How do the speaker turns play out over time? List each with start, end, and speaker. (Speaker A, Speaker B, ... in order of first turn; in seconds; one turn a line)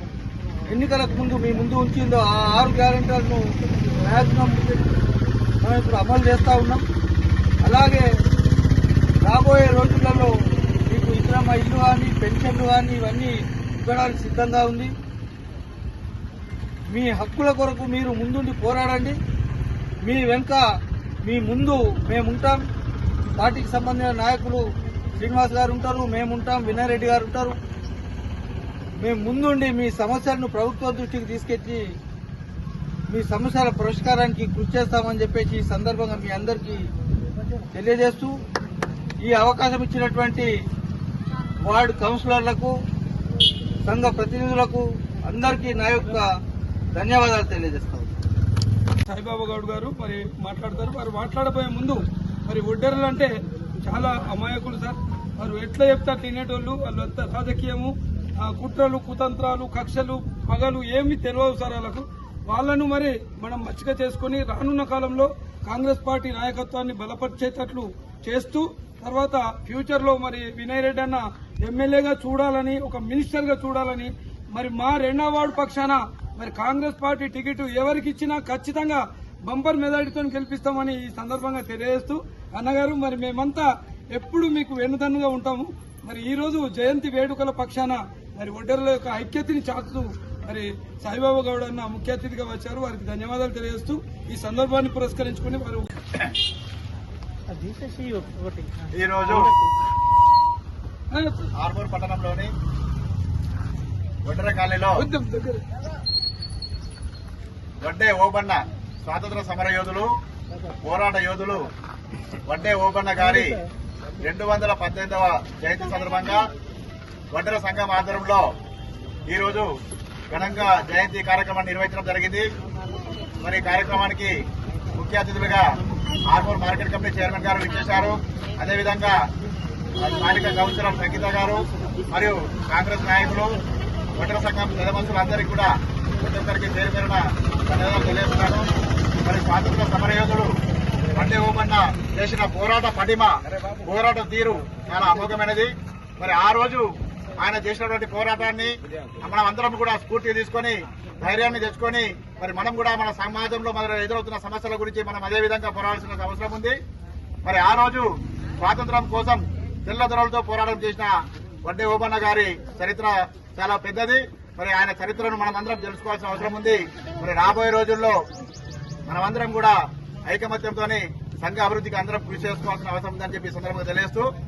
Speaker A: 0.6-4.9
Speaker A: 5.6-6.8
Speaker A: 7.6-8.1
Speaker A: 9.2-10.3
Speaker A: 10.9-14.9
Speaker A: 16.9-19.2
Speaker A: 20.0-20.7
Speaker A: 21.2-22.6
Speaker A: 23.4-24.6
Speaker A: 25.2-27.6
Speaker A: 29.0-31.8
Speaker A: 33.1-36.8
Speaker A: 37.7-38.3
Speaker A: 39.2-40.5
Speaker A: 41.6-42.7
Speaker A: 43.8-46.3
Speaker A: 46.9-48.1
Speaker B: 49.1-53.3
Speaker B: 53.8-95.9
Speaker C: 98.9-99.5
Speaker B: 101.1-101.5
Speaker C: 101.6-102.5
Speaker C: 104.2-105.0
Speaker B: 105.0-105.6
Speaker C: 107.8-110.1
Speaker C: 110.8-111.7
Speaker C: 112.5-113.6
Speaker C: 114.2-116.4
Speaker C: 117.3-118.5
Speaker C: 119.3-119.7
Speaker C: 120.3-122.5
Speaker C: 123.4-124.4
Speaker C: 124.9-125.6
Speaker C: 126.2-129.2
Speaker C: 130.0-133.6
Speaker C: 134.1-138.7
Speaker C: 139.2-140.5
Speaker C: 141.1-156.8
Speaker C: 157.4-168.2
Speaker C: 169.1-174.3